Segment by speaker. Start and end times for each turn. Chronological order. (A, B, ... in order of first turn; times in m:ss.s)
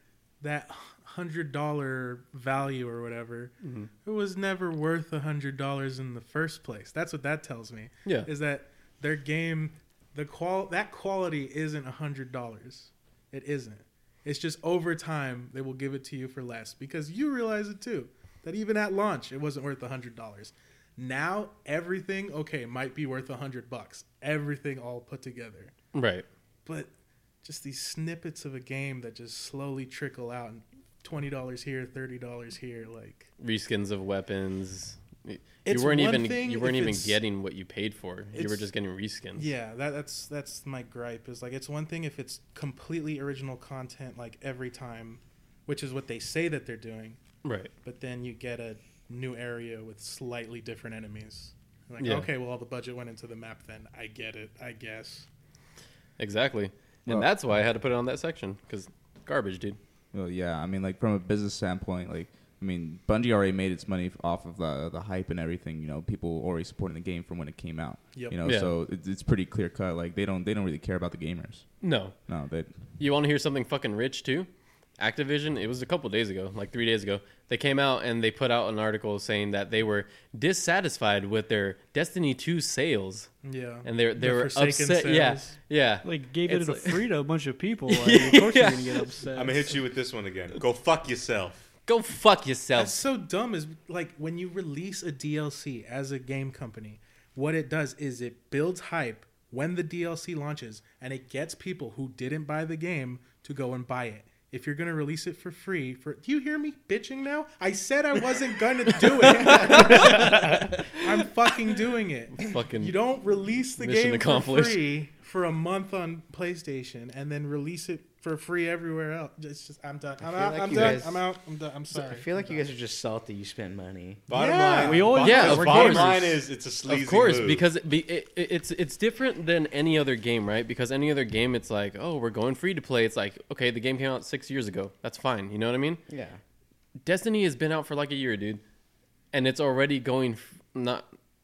0:00.4-0:25.7 A
0:03.6-0:03.9 B
0:25.9-0:26.3 B
0:26.6-0:26.9 A
0:27.4-0:33.3 A
0:33.4-0:39.5 B
0:35.6-0:37.2 A
0:38.3-0:38.7 A
0:39.4-0:47.2 A
0:47.4-0:47.7 B
0:47.8-0:55.3 A
0:52.0-0:52.3 B
0:56.2-0:59.8 B
1:00.1-1:11.7 C
1:08.2-1:08.4 A
1:08.4-1:08.7 B
1:11.8-1:12.2 B
1:12.2-1:12.7 C
1:13.0-1:23.3 B
1:23.4-1:25.6 A
1:23.8-1:27.1 B
1:26.0-1:29.8 D
1:27.9-1:29.1 B
1:29.4-1:31.7 E
1:31.9-1:33.0 B
1:32.7-2:02.6 A
1:49.1-1:50.6 B
1:49.5-1:50.0 F
1:52.4-1:53.0 B
1:53.8-1:54.8 B
2:00.2-2:01.3 F
2:01.9-2:04.3 F
2:04.3-2:07.7 E
2:04.3-2:05.6 A
2:04.8-2:06.4 D
2:05.2-2:16.0 B
2:16.1-2:16.4 F
2:17.0-2:18.6 B
2:19.3-2:21.1 B